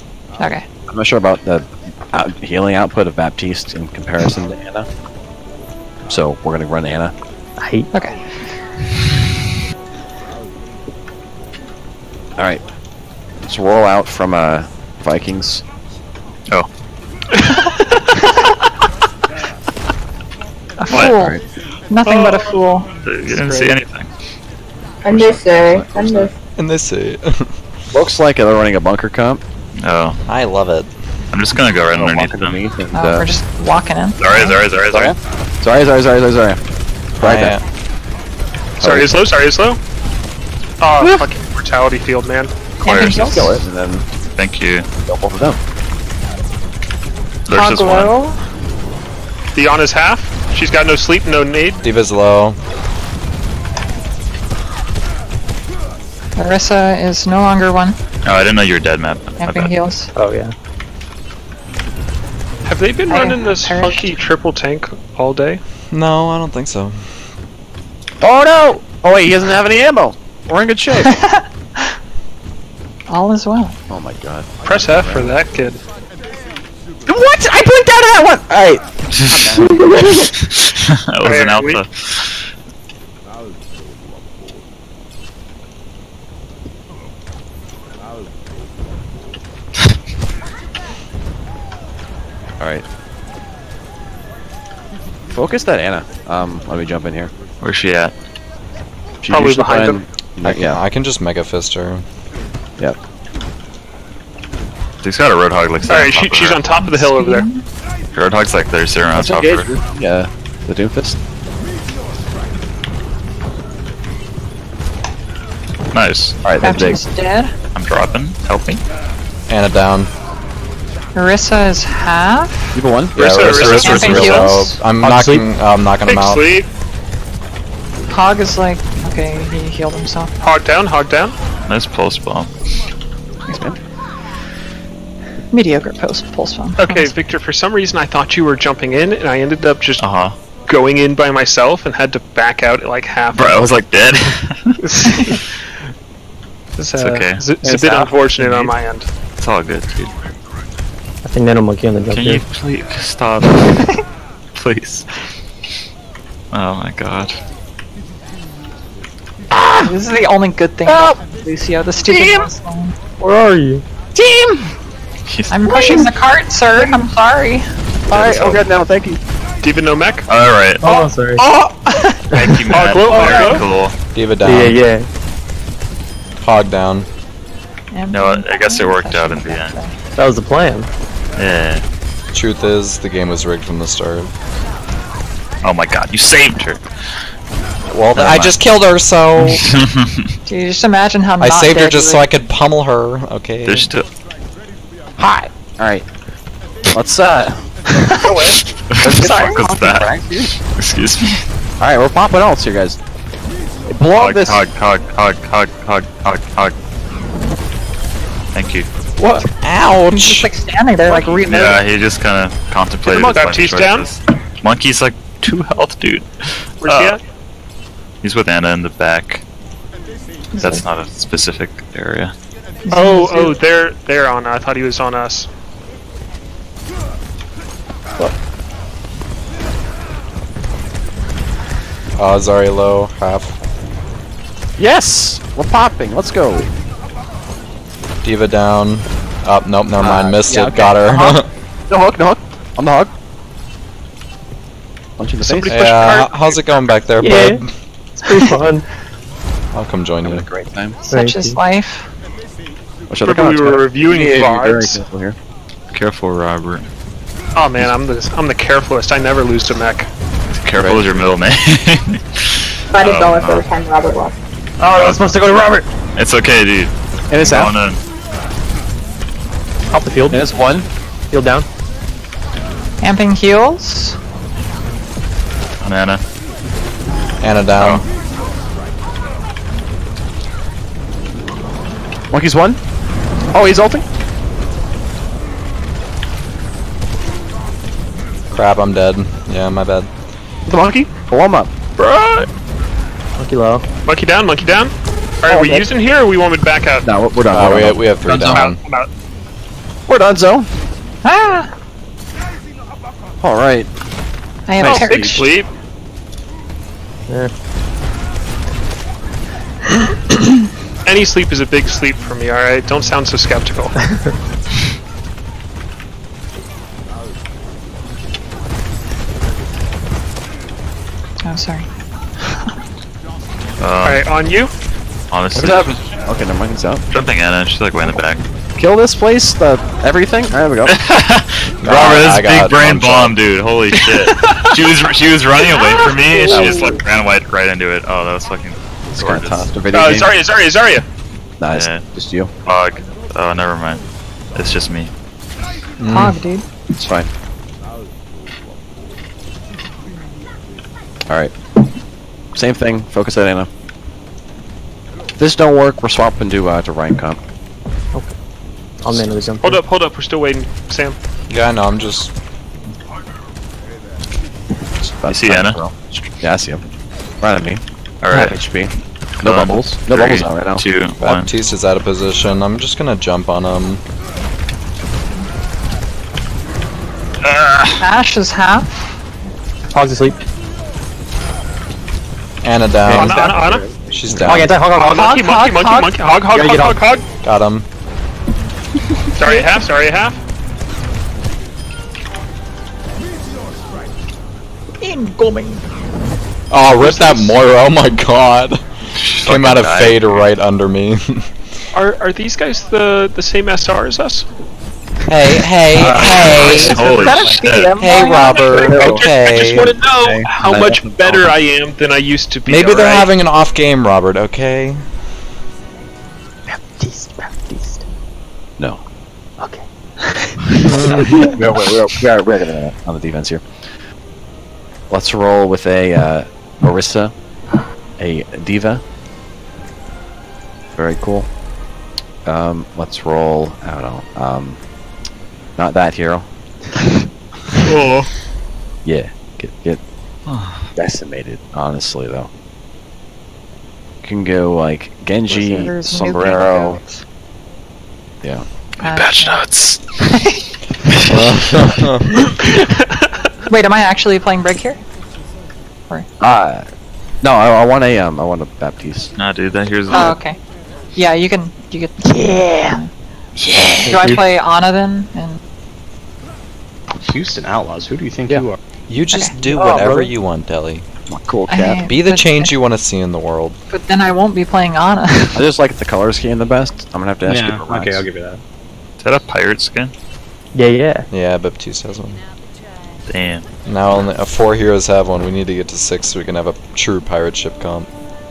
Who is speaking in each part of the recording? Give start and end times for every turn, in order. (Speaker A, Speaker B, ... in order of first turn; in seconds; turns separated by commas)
Speaker A: 0.4-0.7, Speaker B: 0.9-4.9, Speaker B: 6.1-7.1, Speaker C: 7.6-7.9, Speaker A: 7.9-8.4, Speaker B: 12.4-12.6, Speaker B: 13.4-15.6, Speaker A: 20.8-22.9, Speaker B: 20.9-21.4, Speaker D: 22.1-22.6, Speaker E: 23.0-24.1, Speaker D: 23.3-23.8, Speaker F: 25.0-26.3, Speaker B: 25.1-26.3, Speaker G: 26.6-27.5, Speaker B: 27.9-29.4, Speaker E: 29.8-30.2, Speaker G: 30.3-30.9, Speaker E: 31.3-32.6, Speaker B: 31.9-33.3, Speaker A: 32.9-34.6, Speaker E: 34.2-35.1, Speaker B: 34.9-36.6, Speaker B: 37.2-37.6, Speaker G: 37.2-37.6, Speaker D: 38.8-39.8, Speaker B: 38.8-39.3, Speaker D: 40.8-42.5, Speaker B: 41.0-41.3, Speaker A: 42.8-43.6, Speaker E: 42.8-43.5, Speaker B: 43.1-44.0, Speaker E: 44.4-44.9, Speaker B: 45.1-45.6, Speaker E: 47.5-48.1, Speaker A: 47.5-48.4, Speaker D: 49.5-51.8, Speaker G: 51.8-52.6, Speaker A: 56.4-58.0, Speaker E: 58.2-59.7, Speaker A: 59.4-60.1, Speaker C: 60.2-60.5, Speaker D: 62.6-65.6, Speaker A: 63.1-64.2, Speaker G: 65.9-67.1, Speaker B: 68.2-71.1, Speaker A: 71.0-71.9, Speaker A: 73.1-73.8, Speaker B: 73.9-75.3, Speaker D: 74.6-75.8, Speaker B: 77.1-80.2, Speaker F: 79.6-80.3, Speaker E: 80.4-82.4, Speaker D: 81.2-81.8, Speaker B: 95.3-97.3, Speaker E: 97.6-98.1, Speaker B: 99.2-100.8, Speaker D: 99.3-100.0, Speaker G: 100.4-102.0, Speaker E: 105.0-106.6, Speaker D: 105.9-107.5, Speaker A: 106.7-107.6, Speaker E: 108.1-109.7, Speaker B: 109.2-111.2, Speaker E: 115.9-116.4, Speaker B: 116.4-117.0, Speaker A: 116.6-117.5, Speaker E: 117.7-118.8, Speaker G: 119.5-120.1, Speaker A: 121.1-122.8, Speaker B: 122.7-123.5, Speaker D: 123.2-124.5, Speaker G: 123.2-126.5, Speaker E: 123.3-124.5, Speaker A: 123.8-124.8, Speaker C: 125.0-125.5, Speaker D: 126.0-126.7, Speaker A: 128.1-130.3, Speaker D: 130.4-131.4, Speaker E: 131.7-132.5, Speaker B: 133.5-133.8, Speaker A: 135.5-137.1, Speaker D: 136.8-140.0, Speaker E: 140.0-140.3, Speaker D: 140.7-143.7, Speaker E: 143.3-145.2, Speaker D: 144.8-145.4, Speaker D: 146.8-149.1, Speaker E: 147.0-147.4, Speaker C: 147.6-148.2, Speaker E: 148.4-148.7, Speaker E: 149.4-150.1, Speaker C: 151.3-152.4, Speaker E: 152.1-153.9, Speaker E: 154.6-155.1, Speaker E: 156.5-157.4, Speaker B: 159.5-159.9, Speaker A: 159.8-162.9, Speaker B: 160.8-161.2, Speaker B: 162.1-162.5, Speaker C: 163.2-163.8, Speaker B: 164.2-164.7, Speaker B: 165.3-166.1, Speaker A: 165.5-167.7, Speaker B: 168.1-169.2, Speaker E: 168.2-168.5, Speaker D: 169.6-170.3, Speaker E: 170.3-170.8, Speaker C: 170.8-171.4, Speaker A: 171.4-172.7, Speaker E: 172.3-173.9, Speaker D: 172.7-173.7, Speaker C: 173.1-173.6, Speaker G: 174.2-174.8, Speaker C: 174.4-175.1, Speaker G: 176.4-177.1, Speaker A: 177.9-179.9, Speaker E: 178.1-179.8, Speaker C: 180.2-180.9, Speaker E: 181.4-181.8, Speaker G: 182.3-184.3, Speaker E: 185.6-187.2, Speaker G: 187.9-189.7, Speaker E: 188.2-188.6, Speaker E: 189.4-190.3, Speaker A: 190.5-192.2, Speaker G: 191.4-193.9, Speaker E: 193.7-194.1, Speaker B: 195.2-196.1, Speaker B: 196.9-200.5, Speaker E: 198.9-201.5, Speaker B: 201.8-203.0, Speaker B: 203.9-204.6, Speaker E: 204.2-206.7, Speaker E: 208.5-208.9, Speaker G: 209.2-210.5, Speaker A: 210.1-211.8, Speaker E: 211.1-217.2, Speaker D: 213.1-214.2, Speaker B: 213.1-213.5, Speaker D: 216.8-217.2, Speaker E: 218.2-219.4, Speaker A: 220.5-220.8, Speaker E: 220.6-222.3, Speaker A: 222.9-223.6, Speaker D: 222.9-225.5, Speaker G: 232.2-233.5, Speaker B: 234.8-236.7, Speaker G: 238.2-241.5, Speaker B: 240.0-243.1, Speaker B: 245.2-245.8, Speaker D: 245.4-246.6, Speaker G: 245.7-247.7, Speaker C: 247.2-247.6, Speaker C: 248.2-248.8, Speaker G: 249.7-250.4, Speaker B: 250.2-251.0, Speaker A: 251.1-252.1, Speaker C: 251.1-251.6, Speaker B: 253.1-255.4, Speaker D: 253.2-255.0, Speaker E: 255.9-256.9, Speaker D: 257.6-260.1, Speaker E: 260.5-263.7, Speaker B: 260.8-261.2, Speaker F: 262.9-264.4, Speaker C: 264.8-265.9, Speaker E: 264.9-265.2, Speaker E: 266.2-268.0, Speaker B: 267.3-267.7, Speaker C: 269.9-270.5, Speaker B: 270.3-270.9, Speaker C: 271.3-271.7, Speaker A: 273.0-274.2, Speaker E: 275.8-276.2, Speaker G: 277.4-278.1, Speaker E: 277.8-278.1, Speaker B: 282.3-282.8, Speaker B: 283.5-284.0, Speaker G: 288.5-290.1, Speaker B: 290.7-291.7, Speaker D: 292.0-292.5, Speaker C: 293.4-293.9, Speaker D: 294.1-297.1, Speaker B: 295.4-295.9, Speaker B: 297.0-298.7, Speaker G: 297.5-298.8, Speaker D: 298.4-299.1, Speaker B: 300.1-300.7, Speaker A: 301.2-301.7, Speaker B: 303.4-303.9, Speaker A: 304.7-305.5, Speaker B: 304.8-305.4, Speaker D: 304.8-305.7, Speaker D: 311.1-313.9, Speaker A: 321.4-321.9, Speaker A: 322.4-322.7, Speaker E: 323.8-324.2, Speaker D: 324.0-324.7, Speaker E: 325.3-326.0, Speaker B: 325.5-327.0, Speaker E: 327.1-328.4, Speaker B: 328.7-331.0, Speaker E: 330.9-339.7, Speaker G: 331.8-333.4, Speaker D: 333.9-334.8, Speaker D: 335.7-336.9, Speaker B: 336.5-337.0, Speaker B: 339.1-340.3, Speaker D: 339.9-341.0, Speaker B: 341.6-342.5, Speaker E: 341.7-342.1, Speaker E: 342.6-344.0, Speaker E: 344.6-345.1, Speaker G: 346.0-346.4, Speaker A: 346.1-346.7, Speaker B: 346.9-347.3, Speaker B: 351.3-351.5, Speaker B: 352.6-353.7, Speaker B: 355.4-357.4, Speaker C: 359.0-359.8, Speaker D: 359.6-361.2, Speaker G: 361.5-362.3, Speaker B: 365.0-366.8, Speaker E: 365.3-365.8, Speaker B: 367.4-367.8, Speaker E: 368.2-368.6, Speaker B: 368.3-370.9, Speaker C: 368.3-368.7, Speaker E: 369.4-371.5, Speaker G: 371.2-374.0, Speaker E: 377.4-378.0, Speaker A: 378.0-379.0, Speaker C: 379.9-380.4, Speaker G: 382.6-384.8, Speaker D: 383.1-383.9, Speaker C: 383.1-383.5, Speaker B: 383.3-384.6, Speaker C: 384.4-385.9, Speaker D: 384.9-387.2, Speaker A: 385.1-386.2, Speaker C: 386.4-387.1, Speaker G: 387.4-387.9, Speaker D: 389.4-390.4, Speaker A: 389.4-389.8, Speaker A: 395.0-395.9, Speaker G: 396.7-398.8, Speaker D: 397.0-397.5, Speaker E: 399.2-400.4, Speaker G: 399.4-401.5, Speaker D: 401.9-404.4, Speaker G: 405.3-407.0, Speaker E: 405.9-407.9, Speaker D: 406.1-413.3, Speaker H: 406.9-407.4, Speaker A: 407.2-409.0, Speaker G: 408.0-409.9, Speaker B: 408.7-411.5, Speaker G: 412.7-415.0, Speaker C: 416.7-418.0, Speaker C: 419.6-421.5, Speaker G: 420.9-421.2, Speaker B: 421.1-424.0, Speaker B: 425.1-427.3, Speaker B: 428.2-429.0, Speaker B: 430.9-431.5, Speaker B: 432.4-434.8, Speaker B: 435.8-436.4, Speaker D: 437.9-438.3, Speaker B: 439.1-440.0, Speaker E: 440.5-440.9, Speaker B: 440.9-442.5, Speaker B: 444.2-447.0, Speaker A: 445.5-447.2, Speaker B: 448.4-450.0, Speaker A: 449.0-449.7, Speaker E: 449.1-449.5, Speaker A: 450.2-450.6, Speaker B: 451.1-451.8, Speaker G: 451.3-452.3, Speaker A: 453.7-455.0, Speaker B: 456.4-456.9, Speaker B: 457.4-459.3, Speaker E: 459.4-460.4, Speaker A: 460.1-460.6, Speaker A: 461.1-463.1, Speaker C: 462.2-463.0, Speaker B: 463.6-464.1, Speaker C: 464.1-464.4, Speaker A: 464.1-465.6, Speaker H: 467.2-468.8, Speaker G: 469.1-471.1, Speaker C: 469.6-470.3, Speaker B: 471.3-472.1, Speaker A: 471.7-472.7, Speaker G: 472.1-473.8, Speaker A: 473.9-475.6, Speaker B: 475.5-478.3, Speaker H: 477.4-478.6, Speaker E: 479.2-480.1, Speaker C: 480.7-481.3, Speaker G: 481.3-482.4, Speaker E: 483.3-483.7, Speaker G: 483.9-488.1